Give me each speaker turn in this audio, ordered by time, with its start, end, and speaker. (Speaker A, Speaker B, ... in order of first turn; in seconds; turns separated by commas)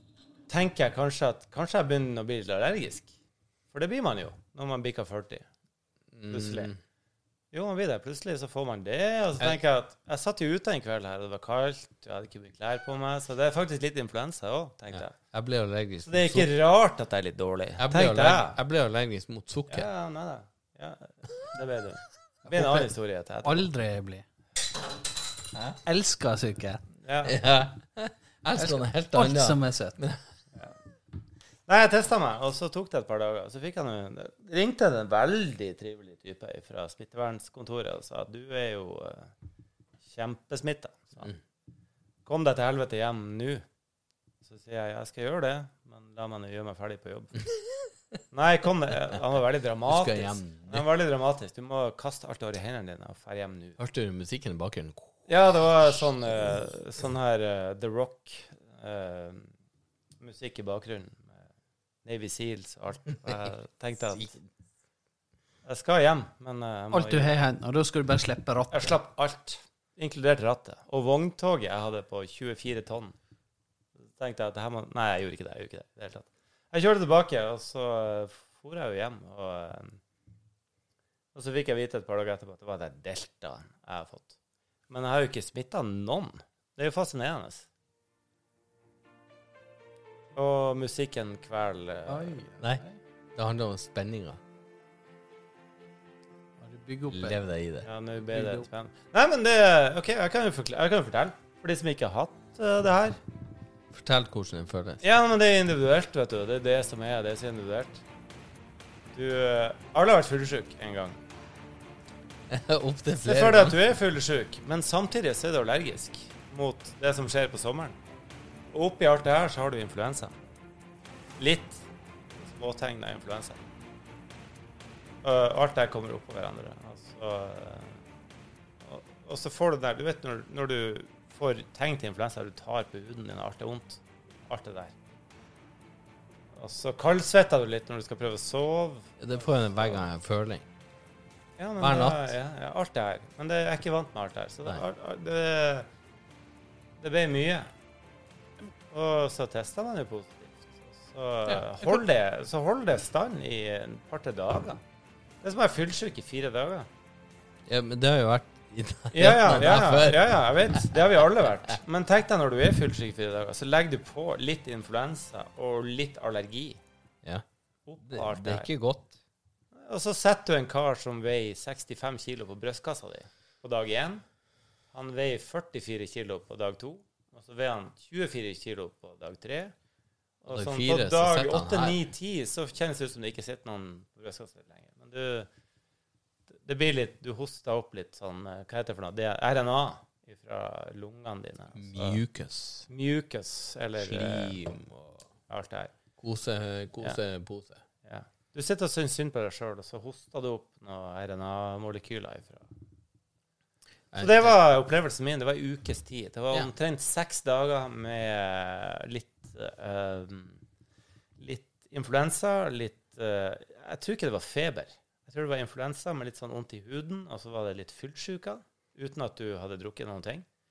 Speaker A: 0.5-3.1, Speaker A: 3.7-5.5, Speaker B: 6.1-6.8, Speaker A: 6.3-6.7, Speaker A: 7.5-15.2, Speaker B: 14.9-16.5, Speaker A: 16.1-18.6, Speaker B: 17.8-19.9, Speaker A: 19.7-23.7, Speaker C: 23.4-24.2, Speaker C: 25.9-26.8, Speaker A: 27.0-27.4, Speaker B: 27.2-30.2, Speaker C: 28.6-30.0, Speaker A: 31.7-39.3, Speaker A: 40.1-41.3, Speaker A: 42.3-43.6, Speaker A: 44.5-47.4, Speaker A: 48.3-53.8, Speaker B: 49.9-50.9, Speaker B: 53.8-55.3, Speaker A: 55.3-59.5, Speaker A: 60.2-61.3, Speaker A: 62.0-64.4, Speaker B: 64.2-64.4, Speaker A: 65.7-67.4, Speaker C: 66.9-69.0, Speaker A: 68.7-73.2, Speaker A: 74.2-80.0, Speaker A: 81.3-84.3, Speaker A: 84.9-87.7, Speaker A: 90.3-92.5, Speaker C: 92.1-93.0, Speaker B: 93.4-94.4, Speaker C: 96.6-97.4, Speaker B: 97.1-97.9, Speaker A: 97.8-103.2, Speaker C: 98.3-98.7, Speaker B: 103.9-105.0, Speaker A: 105.0-108.0, Speaker A: 109.1-111.2, Speaker B: 112.5-113.8, Speaker A: 113.2-118.0, Speaker A: 118.7-120.3, Speaker A: 121.4-121.8, Speaker A: 122.4-123.6, Speaker A: 125.2-128.0, Speaker A: 128.8-134.9, Speaker A: 136.6-140.0, Speaker B: 139.2-140.7, Speaker A: 141.6-145.9, Speaker B: 141.8-142.3, Speaker A: 147.0-147.7, Speaker A: 148.9-154.8, Speaker A: 155.4-156.9, Speaker B: 157.7-160.9, Speaker A: 159.1-166.8, Speaker A: 167.9-168.7, Speaker B: 168.1-169.2, Speaker A: 169.8-174.2, Speaker A: 174.9-179.7, Speaker A: 180.4-185.5, Speaker B: 180.5-182.0, Speaker A: 186.6-192.2, Speaker B: 191.8-192.9, Speaker A: 192.9-194.6, Speaker B: 194.0-195.2, Speaker A: 195.5-195.9, Speaker B: 196.2-197.8, Speaker A: 198.1-202.7, Speaker B: 204.1-204.6, Speaker A: 204.2-210.6, Speaker A: 211.4-220.5